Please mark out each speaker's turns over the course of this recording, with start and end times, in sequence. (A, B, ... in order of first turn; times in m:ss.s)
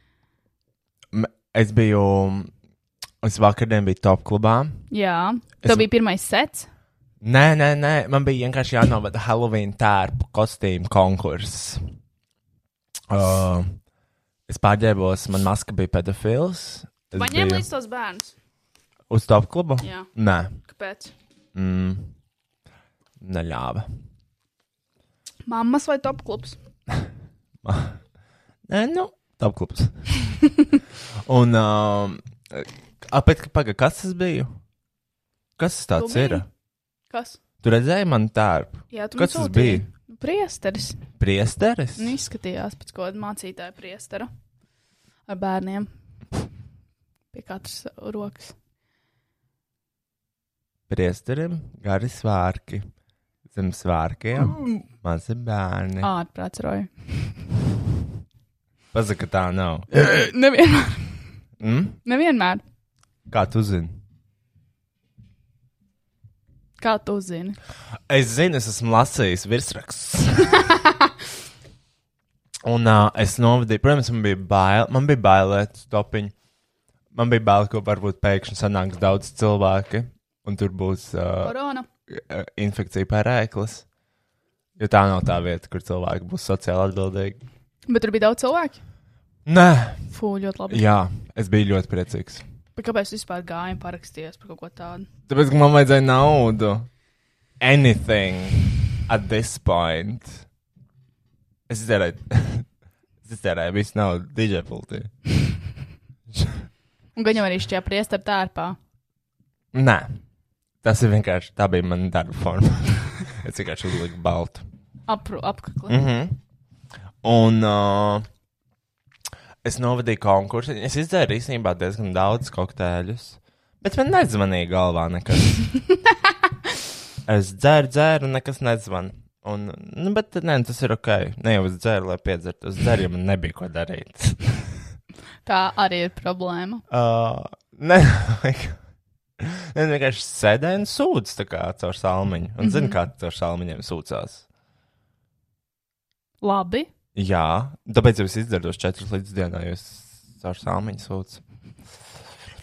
0:01.1-0:02.5 A
0:03.2-0:04.8 A
0:04.9-0:06.7 B
0:07.2-0:11.8 A
0:13.1-0:13.8 A
0:14.5-0:17.6 A
0:17.1-0:18.3 B
0:19.1-0:20.6 A
0:19.8-0:20.1 B
0:20.6-0:21.1 B
0:21.5-0:22.1 A
0:23.2-0:23.9 A
0:25.5-0:26.6 B
0:27.6-0:28.0 A
0:28.7-0:29.9 A
0:31.2-0:34.5 A
0:35.6-0:36.5 A
0:36.0-0:36.4 B
0:37.1-0:37.4 B
0:37.6-0:39.8 A
0:38.9-0:41.0 B
0:41.2-0:42.2 A
0:42.0-0:44.3 B
0:45.3-0:45.9 B
0:47.3-0:48.5 B
0:50.9-0:52.9 A
0:53.5-0:56.1 A
0:56.0-0:57.3 B
0:58.9-0:59.9 A
0:59.9-1:01.2 B
1:01.6-1:02.0 A
1:02.0-1:02.6 B
1:03.3-1:04.0 A
1:06.8-1:07.6 B
1:08.1-1:10.7 A
1:12.6-1:16.3 A
1:17.1-1:21.5 A
1:21.4-1:21.9 B
1:22.1-1:23.8 A
1:24.8-1:27.4 A
1:27.9-1:28.8 B
1:29.4-1:30.0 A
1:30.1-1:30.8 B
1:30.7-1:32.4 A
1:32.8-1:35.1 B
1:35.3-1:36.9 A
1:37.6-1:40.4 A
1:41.7-1:42.7 A
1:43.2-1:45.1 A
1:46.3-1:46.6 A
1:47.2-1:48.8 B
1:49.7-1:50.2 A
1:50.8-1:54.6 A
1:55.1-1:56.0 B
1:55.9-1:56.4 A
1:57.2-1:58.3 A
1:59.6-2:05.6 A
2:07.2-2:14.7 A
2:15.4-2:16.8 B
2:16.9-2:18.8 A
2:19.4-2:24.4 A
2:22.6-2:23.0 B
2:26.4-2:26.9 B
2:27.1-2:31.4 A